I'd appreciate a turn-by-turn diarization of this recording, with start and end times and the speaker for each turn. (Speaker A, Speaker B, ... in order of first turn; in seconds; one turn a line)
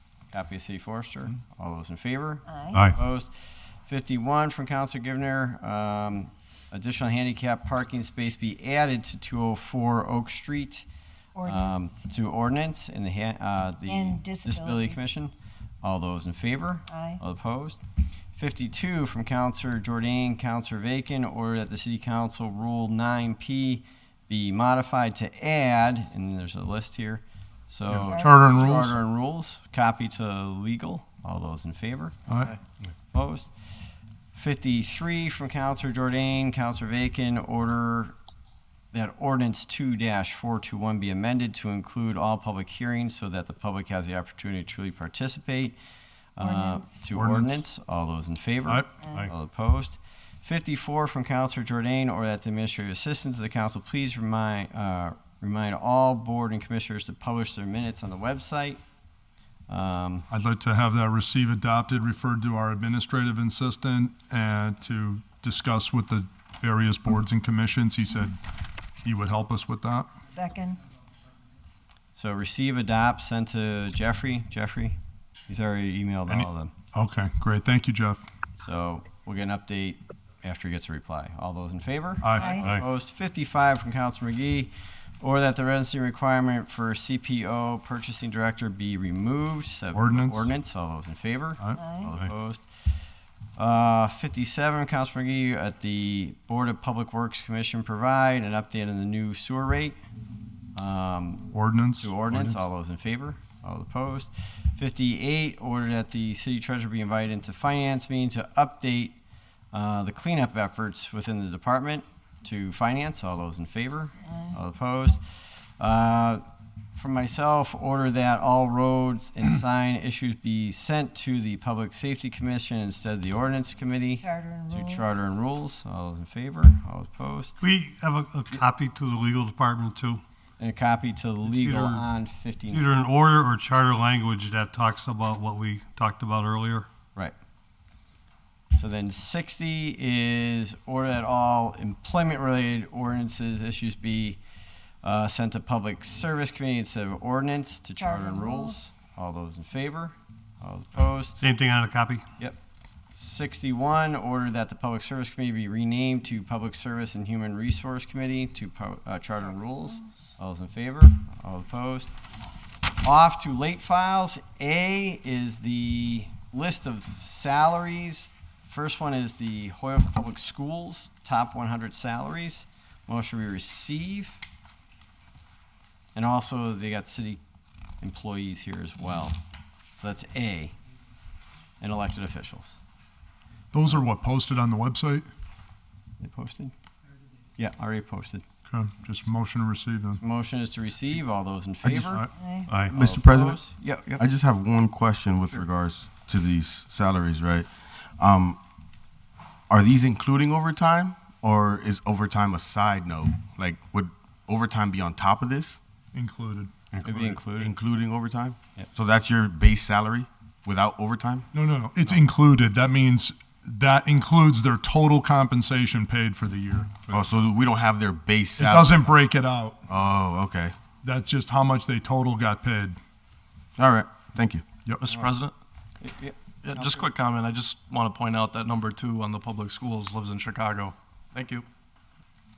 Speaker A: 0.3-3.3
Speaker B: 2.5-2.9
Speaker A: 3.8-10.8
Speaker B: 11.3-12.1
Speaker A: 11.4-17.8
Speaker B: 13.8-15.1
Speaker B: 16.9-17.2
Speaker A: 18.3-32.1
Speaker C: 27.9-28.9
Speaker B: 28.1-28.4
Speaker C: 32.3-32.5
Speaker A: 33.1-33.5
Speaker A: 34.3-38.1
Speaker A: 38.9-45.7
Speaker A: 46.4-58.8
Speaker B: 46.4-47.1
Speaker C: 47.1-47.6
Speaker C: 48.7-49.3
Speaker B: 49.0-49.3
Speaker A: 59.7-60.2
Speaker C: 60.3-68.4
Speaker C: 69.0-70.1
Speaker B: 70.2-70.8
Speaker A: 72.2-75.0
Speaker A: 75.5-76.7
Speaker C: 76.3-78.2
Speaker A: 78.6-92.6
Speaker C: 82.2-82.6
Speaker B: 82.3-82.7
Speaker C: 89.9-90.5
Speaker B: 91.7-92.1
Speaker A: 93.5-100.0
Speaker A: 100.7-101.5
Speaker C: 101.5-102.6
Speaker A: 102.0-109.2
Speaker A: 109.7-127.5
Speaker B: 114.2-114.6
Speaker B: 124.2-125.0
Speaker D: 127.6-130.2
Speaker A: 130.6-132.9
Speaker D: 131.4-132.0
Speaker D: 132.7-136.9
Speaker A: 138.7-144.4
Speaker A: 145.0-151.4
Speaker B: 148.0-148.8
Speaker D: 151.4-152.2
Speaker A: 153.1-162.1
Speaker A: 163.0-174.4
Speaker A: 176.1-177.4
Speaker A: 178.0-179.4
Speaker A: 179.9-180.7
Speaker A: 181.8-182.8
Speaker C: 183.7-185.3
Speaker A: 186.2-186.7
Speaker A: 187.6-188.4
Speaker C: 188.7-190.2
Speaker A: 190.2-192.3
Speaker C: 191.8-192.9
Speaker B: 192.3-192.7
Speaker A: 192.8-194.2
Speaker E: 192.9-193.6
Speaker E: 194.2-198.6
Speaker E: 199.7-205.8
Speaker C: 206.1-207.2
Speaker A: 207.0-207.7
Speaker E: 207.6-211.5
Speaker C: 211.5-217.3
Speaker E: 217.1-219.2
Speaker C: 218.6-219.8
Speaker E: 219.9-220.8
Speaker C: 221.0-223.0
Speaker E: 223.8-224.6
Speaker F: 225.0-225.5
Speaker A: 226.0-227.1
Speaker F: 226.6-231.7